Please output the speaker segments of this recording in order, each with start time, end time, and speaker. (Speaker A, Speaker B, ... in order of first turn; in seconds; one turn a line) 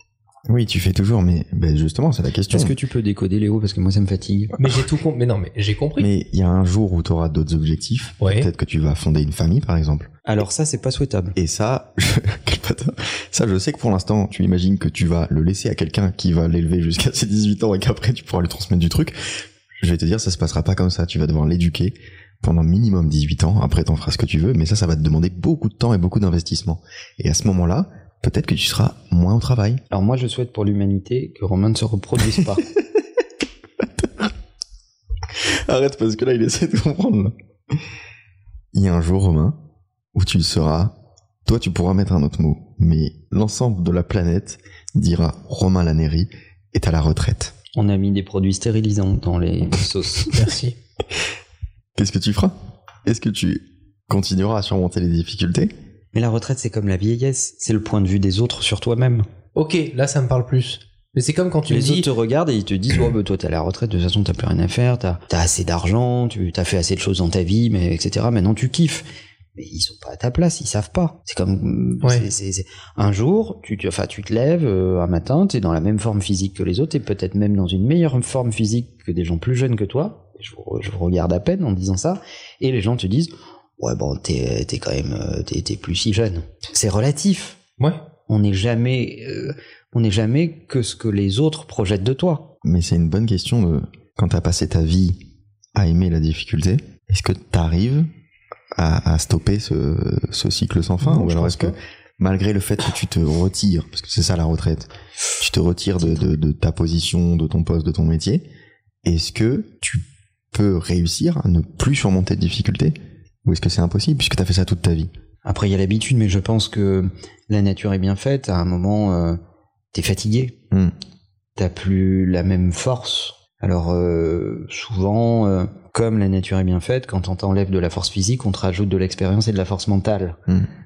Speaker A: 0.5-2.8
Speaker B: 2.5-4.6
Speaker C: 4.6-6.1
Speaker A: 6.0-10.1
Speaker C: 8.2-8.5
Speaker B: 10.3-11.4
Speaker A: 11.4-29.8
Speaker B: 29.9-32.7
Speaker A: 32.4-32.8
Speaker A: 33.8-34.3
Speaker A: 35.3-37.8
Speaker A: 38.7-39.6
Speaker A: 40.1-47.5
Speaker B: 47.8-50.3
Speaker C: 50.3-50.8
Speaker A: 52.0-55.7
Speaker B: 56.1-59.3
Speaker C: 59.5-62.1
Speaker B: 61.7-87.6
Speaker B: 88.3-92.6
Speaker A: 92.6-95.2
Speaker A: 95.8-98.1
Speaker A: 98.8-108.5
Speaker C: 101.2-101.7
Speaker A: 109.0-115.1
Speaker B: 115.5-119.4
Speaker B: 119.9-120.6
Speaker B: 121.6-130.4